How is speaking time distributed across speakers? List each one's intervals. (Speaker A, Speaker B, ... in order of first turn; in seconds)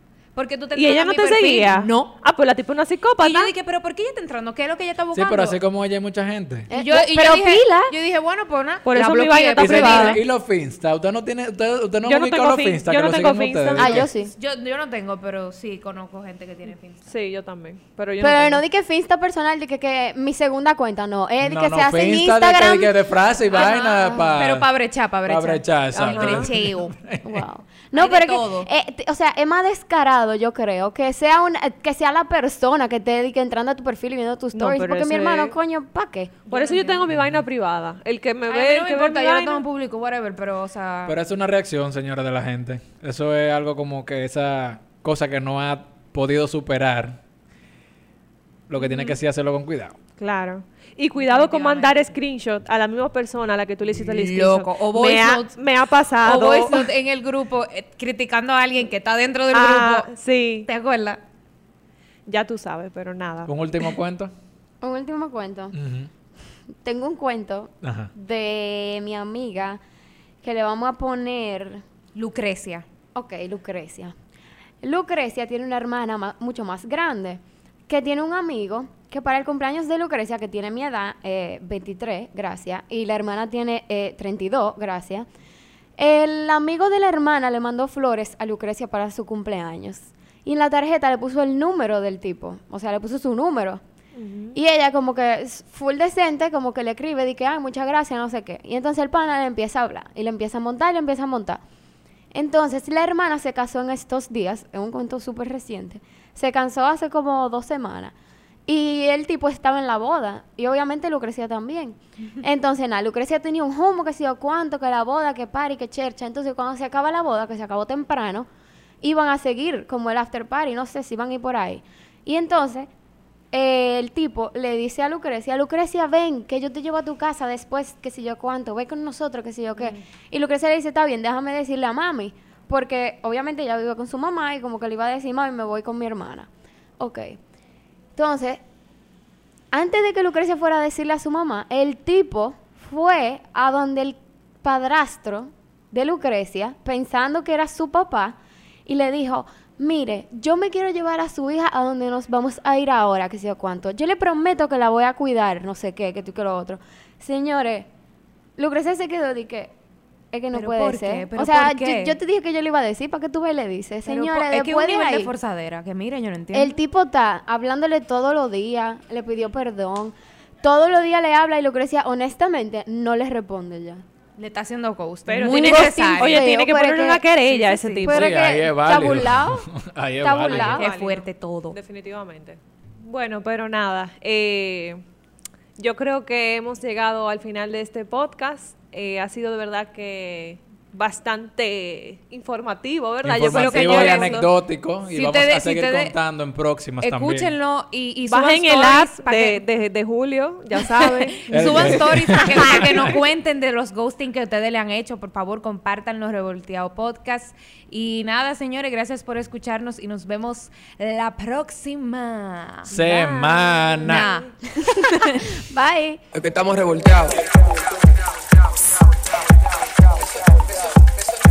Speaker A: 0.3-2.2, 3.2-5.6, 6.7-10.2, 14.2-17.0, 23.5-26.9, 27.9-28.7, 36.5-37.0, 38.5-41.2, 51.2-52.1, 54.0-55.5, 56.2-60.1, 60.7-61.2, 72.2-72.9, 160.5-162.2, 164.1-166.8, 174.4-176.4, 177.5-178.1, 180.2-181.8, 193.5-194.4, 195.1-196.1, 197.0-199.6, 200.8-212.9, 214.0-215.5
Speaker B: 0.8-3.5, 8.9-10.2, 12.0-14.1, 17.1-18.6, 25.9-26.5, 34.5-35.5, 36.5-39.6, 48.8-49.2, 50.2-56.9, 59.5-60.7, 62.3-63.5, 94.2-94.6, 175.3-178.3, 180.6-185.0, 185.8-194.5, 198.3-203.0, 212.9-214.5
Speaker C: 5.1-6.7, 9.6-14.1, 21.4-24.7, 25.3-27.5, 37.1-37.4, 41.1-47.2, 48.7-50.0, 63.5-64.3, 65.7-66.1, 67.8-68.1, 178.1-180.8, 193.2-197.5, 201.5-203.1, 212.9-214.3
Speaker D: 6.7-7.9, 13.8-14.3, 18.2-23.0, 27.2-36.5, 64.8-65.8, 66.8-69.8, 70.4-71.8, 73.2-74.2, 74.8-85.3, 86.0-93.8, 94.5-101.6, 102.3-108.1, 108.7-118.5, 119.0-122.9, 123.5-137.4, 138.2-138.6, 139.7-157.9, 158.6-159.7, 160.3-165.3, 166.5-174.0, 175.6-177.2, 178.0-179.7, 180.2-180.8, 214.8-216.2
Speaker E: 216.3-221.1